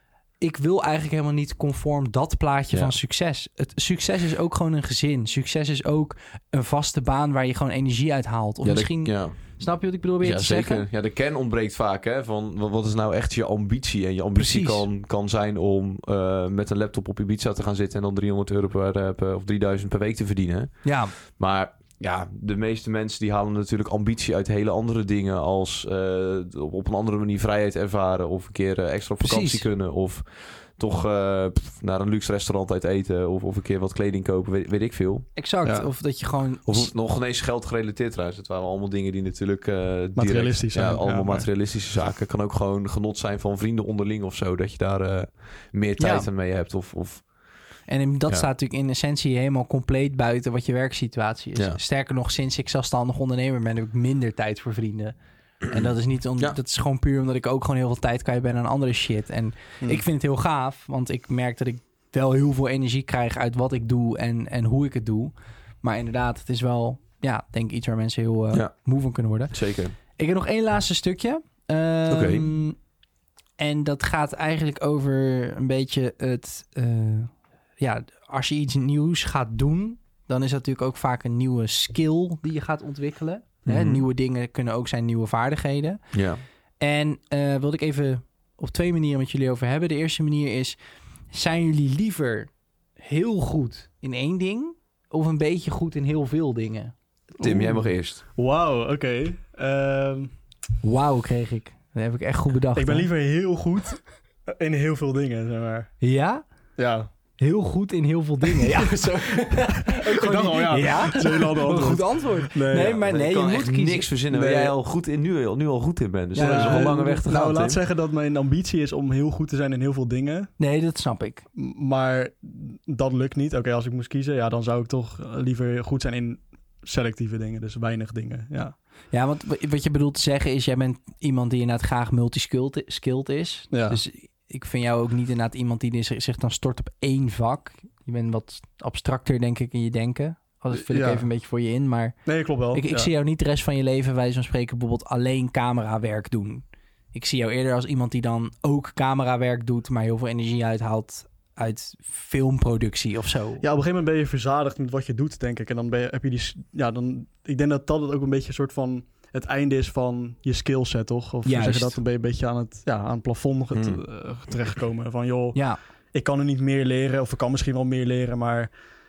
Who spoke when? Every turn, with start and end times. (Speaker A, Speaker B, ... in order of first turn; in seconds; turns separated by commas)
Speaker A: 0.4-10.8, Speaker B: 8.6-9.4, Speaker B: 10.2-35.3, Speaker A: 14.3-14.8, Speaker A: 20.8-21.1, Speaker A: 29.2-29.7, Speaker A: 35.4-36.9, Speaker B: 36.7-47.3, Speaker C: 40.1-41.5, Speaker A: 46.0-46.3, Speaker A: 47.9-55.1, Speaker A: 55.7-69.5, Speaker B: 55.7-56.6, Speaker B: 69.5-69.9, Speaker A: 70.2-72.8, Speaker B: 72.1-72.5, Speaker A: 73.6-86.0, Speaker B: 83.6-84.0, Speaker B: 86.1-86.4, Speaker A: 86.8-90.8, Speaker A: 91.3-96.9, Speaker C: 97.4-100.3, Speaker B: 97.4-98.2, Speaker A: 100.8-103.1, Speaker C: 102.7-105.9, Speaker A: 106.0-106.4, Speaker C: 106.8-107.1, Speaker A: 107.4-114.1, Speaker C: 109.8-113.0, Speaker B: 112.7-117.8, Speaker C: 114.3-114.7, Speaker A: 116.3-117.2, Speaker C: 116.4-120.5, Speaker A: 120.6-121.4, Speaker C: 121.5-128.7, Speaker A: 129.1-142.2, Speaker C: 133.7-134.0, Speaker C: 140.7-141.2, Speaker C: 142.2-143.1, Speaker A: 142.7-153.6, Speaker C: 153.6-168.7, Speaker A: 161.4-162.0, Speaker B: 163.7-164.0